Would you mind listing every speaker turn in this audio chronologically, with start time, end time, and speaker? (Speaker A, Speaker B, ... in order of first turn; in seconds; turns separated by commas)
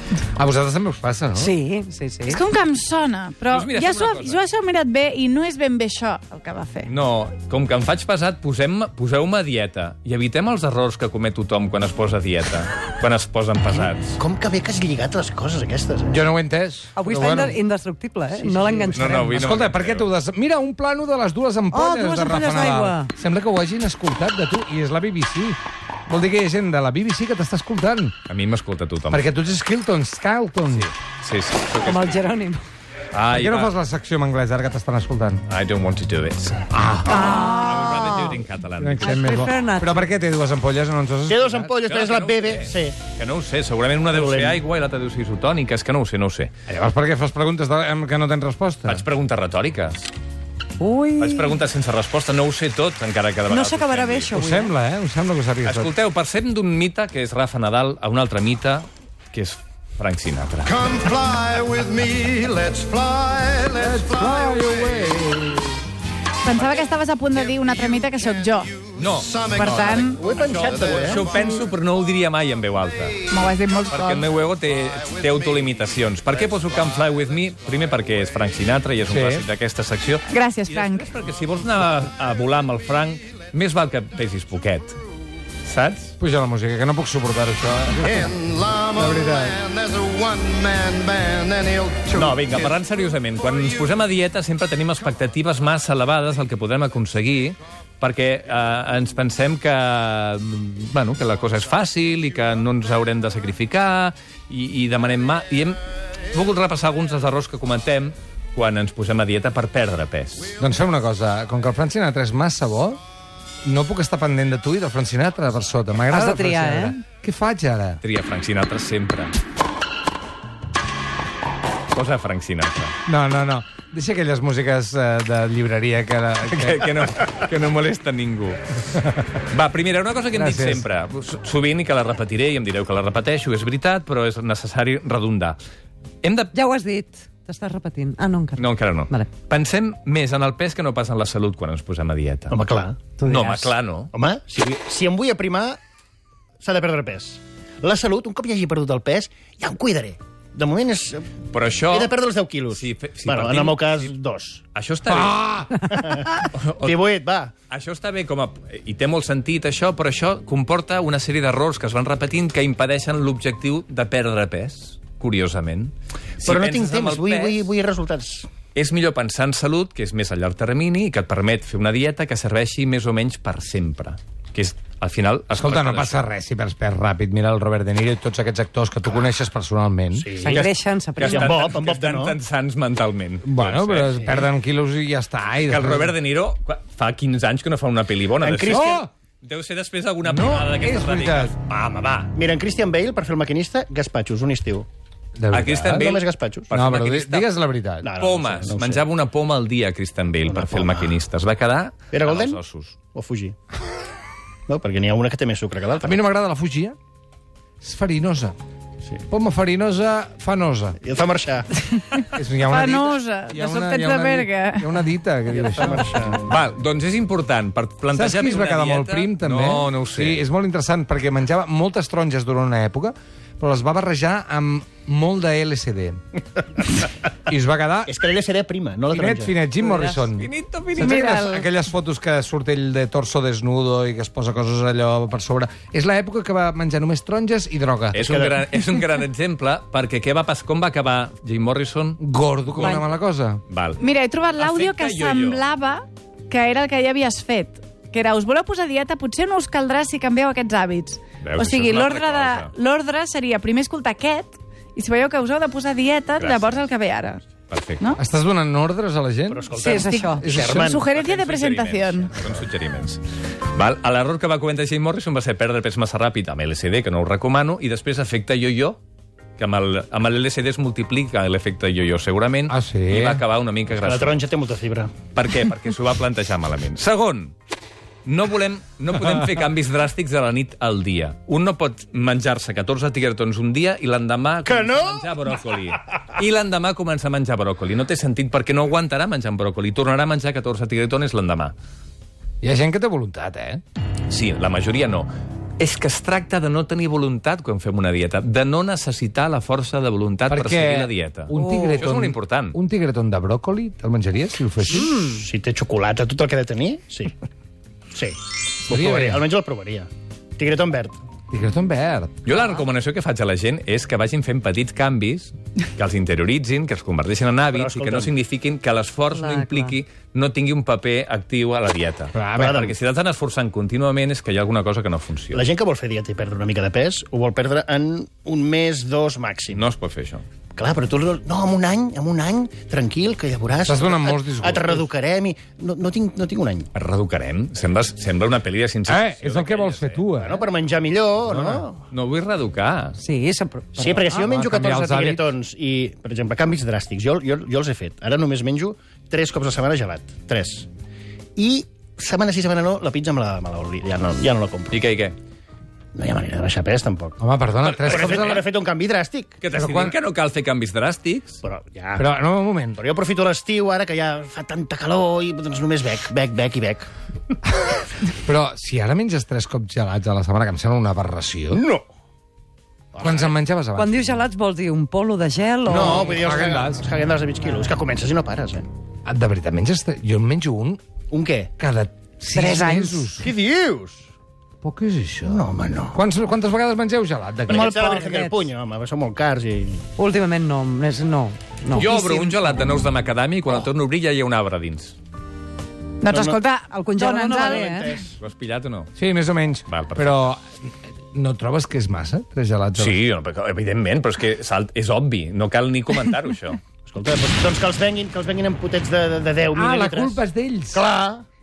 Speaker A: 0.3-1.5, Speaker B: 1.3-2.4, Speaker C: 2.3-6.9, Speaker D: 3.5-4.4, Speaker D: 6.8-14.2, Speaker E: 13.7-16.2, Speaker A: 16.1-17.6, Speaker B: 16.9-19.4, Speaker E: 18.6-18.9, Speaker D: 18.9-20.1, Speaker A: 19.0-28.1, Speaker B: 21.7-23.1, Speaker D: 28.3-29.3, Speaker A: 29.1-30.9, Speaker D: 30.7-32.2, Speaker B: 31.8-32.6, Speaker D: 33.1-33.7, Speaker A: 33.3-35.4, Speaker D: 35.5-39.2, Speaker A: 36.7-37.3, Speaker B: 37.1-38.4, Speaker A: 38.8-41.6, Speaker B: 39.0-40.1, Speaker E: 41.3-43.0, Speaker D: 41.8-46.5, Speaker E: 44.1-44.6, Speaker A: 46.7-49.0, Speaker D: 48.9-50.1, Speaker B: 50.8-51.6, Speaker D: 51.2-54.3, Speaker B: 53.5-54.7, Speaker A: 54.3-55.9, Speaker D: 55.6-60.8, Speaker F: 60.7-65.0, Speaker A: 63.8-65.7, Speaker C: 66.4-68.8, Speaker F: 68.8-71.2, Speaker D: 68.9-73.2, Speaker C: 69.5-70.2, Speaker E: 70.2-71.2, Speaker C: 73.2-74.1, Speaker D: 73.9-85.0, Speaker A: 79.0-79.5, Speaker C: 80.3-81.1, Speaker D: 85.6-86.2, Speaker A: 86.2-88.3, Speaker F: 88.2-92.7, Speaker A: 88.9-89.6, Speaker D: 92.1-105.8, Speaker D: 106.3-110.5, Speaker A: 110.6-113.0, Speaker A: 113.6-118.0, Speaker B: 116.1-117.0, Speaker D: 118.0-119.3, Speaker D: 121.9-122.9, Speaker A: 123.0-127.1, Speaker D: 126.5-135.6, Speaker A: 130.3-130.8, Speaker D: 136.2-136.5, Speaker B: 136.5-139.3, Speaker D: 138.6-142.6, Speaker E: 142.5-143.0, Speaker B: 143.2-143.7, Speaker D: 143.2-144.1, Speaker E: 144.1-145.8, Speaker E: 146.6-154.6, Speaker D: 151.5-152.2, Speaker D: 152.7-154.1, Speaker D: 154.7-155.4, Speaker A: 155.1-155.9, Speaker E: 155.8-157.5, Speaker D: 156.4-157.0, Speaker D: 157.7-167.7, Speaker E: 166.4-168.5, Speaker D: 168.7-176.2, Speaker A: 175.6-180.3, Speaker E: 180.1-180.7, Speaker B: 180.4-181.6, Speaker D: 180.5-184.5, Speaker E: 181.2-182.4, Speaker A: 183.4-186.1, Speaker D: 185.6-192.3, Speaker E: 188.4-189.0, Speaker A: 188.7-189.1, Speaker A: 190.2-191.6, Speaker E: 192.3-194.8, Speaker A: 195.4-196.1, Speaker D: 195.5-197.5, Speaker E: 195.8-196.7, Speaker A: 196.7-198.1, Speaker E: 198.0-199.1, Speaker D: 198.2-202.9, Speaker E: 200.4-201.2, Speaker E: 202.1-202.6, Speaker E: 203.1-203.6, Speaker E: 204.7-206.2, Speaker A: 206.0-206.9, Speaker A: 207.8-208.5, Speaker A: 209.3-211.0, Speaker E: 211.0-211.8, Speaker C: 211.8-214.9, Speaker A: 212.3-216.0, Speaker E: 215.5-216.5, Speaker D: 216.4-220.4, Speaker A: 218.1-226.2, Speaker A: 227.5-228.1, Speaker E: 228.1-229.5, Speaker A: 229.1-238.3, Speaker D: 230.2-231.4, Speaker C: 231.0-231.6, Speaker D: 238.1-242.2, Speaker E: 238.2-238.6, Speaker A: 242.2-243.6, Speaker D: 243.7-244.0, Speaker C: 244.0-257.4, Speaker D: 244.6-245.6, Speaker D: 251.4-252.7, Speaker D: 256.4-256.8, Speaker D: 257.7-258.1, Speaker A: 258.2-259.7, Speaker E: 259.5-261.0, Speaker B: 259.7-260.4, Speaker C: 259.9-262.3, Speaker A: 260.4-261.0, Speaker D: 261.0-263.2, Speaker D: 263.7-269.0, Speaker D: 269.6-274.4, Speaker A: 272.7-273.4, Speaker E: 273.9-275.1, Speaker D: 275.3-277.5, Speaker D: 278.2-291.7, Speaker E: 284.6-285.4, Speaker A: 292.6-293.8, Speaker D: 294.3-302.8, Speaker A: 300.5-305.1, Speaker B: 301.6-301.9, Speaker E: 304.9-307.3, Speaker A: 308.9-309.5, Speaker E: 308.9-311.2, Speaker A: 311.5-312.3, Speaker D: 312.4-325.6, Speaker E: 317.7-318.3, Speaker B: 319.3-319.9, Speaker A: 322.3-322.8, Speaker E: 322.5-322.9, Speaker E: 325.5-329.8, Speaker D: 329.7-330.4, Speaker E: 330.8-336.9, Speaker A: 333.9-335.1, Speaker D: 336.9-340.2, Speaker A: 339.1-340.6, Speaker E: 340.4-342.0, Speaker A: 341.4-341.8, Speaker D: 342.1-343.2, Speaker B: 343.2-344.5, Speaker E: 343.9-350.9, Speaker A: 344.4-345.5, Speaker E: 351.6-355.0, Speaker D: 354.9-355.3, Speaker E: 356.1-357.4, Speaker A: 357.4-358.6, Speaker D: 357.8-358.6, Speaker E: 358.1-359.6, Speaker D: 359.6-361.6, Speaker A: 359.7-360.1, Speaker E: 361.6-362.2, Speaker A: 362.1-363.0, Speaker E: 362.9-367.1, Speaker A: 368.3-371.8, Speaker E: 371.7-372.0, Speaker E: 373.1-373.5, Speaker A: 373.2-374.3, Speaker B: 373.9-376.3, Speaker E: 375.8-378.9, Speaker A: 375.9-377.0, Speaker A: 379.2-381.0, Speaker E: 381.3-381.7, Speaker A: 381.8-383.5, Speaker B: 382.5-383.3, Speaker E: 383.4-384.3, Speaker A: 384.8-388.2, Speaker E: 385.4-386.2, Speaker E: 387.7-390.0, Speaker C: 387.7-388.1, Speaker B: 388.0-388.7, Speaker B: 390.2-392.6, Speaker D: 391.9-395.1, Speaker C: 396.2-397.9, Speaker E: 396.2-396.6, Speaker B: 397.0-398.1, Speaker E: 397.6-398.4, Speaker D: 398.4-399.1, Speaker A: 399.2-400.6, Speaker D: 399.9-400.5, Speaker A: 401.3-403.2, Speaker D: 403.0-406.8, Speaker E: 407.1-410.4, Speaker A: 409.7-411.0, Speaker E: 410.9-411.4